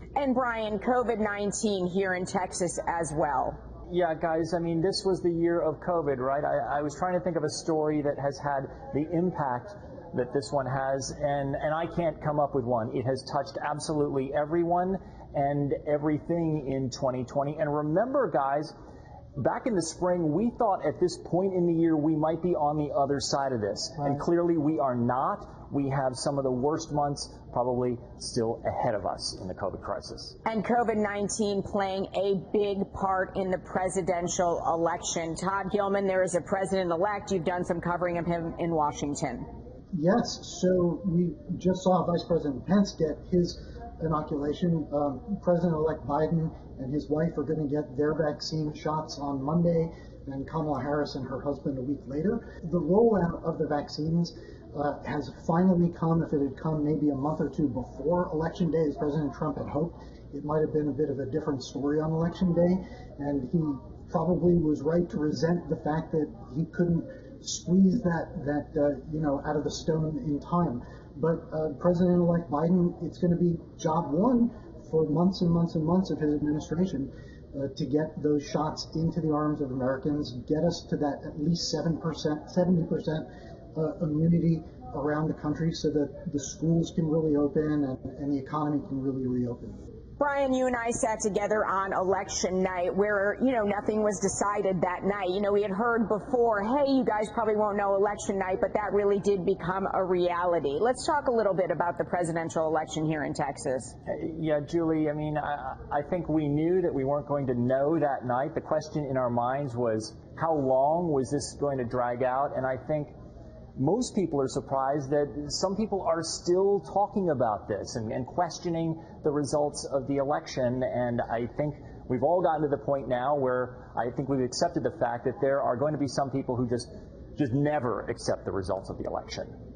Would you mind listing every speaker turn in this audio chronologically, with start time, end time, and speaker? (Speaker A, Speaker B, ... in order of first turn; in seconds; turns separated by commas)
Speaker A: 0.1-3.6, Speaker B: 3.9-18.7, Speaker B: 19.4-30.4, Speaker A: 30.4-39.5, Speaker C: 39.9-89.8, Speaker A: 90.2-103.9, Speaker B: 104.1-113.1, Speaker B: 113.8-129.5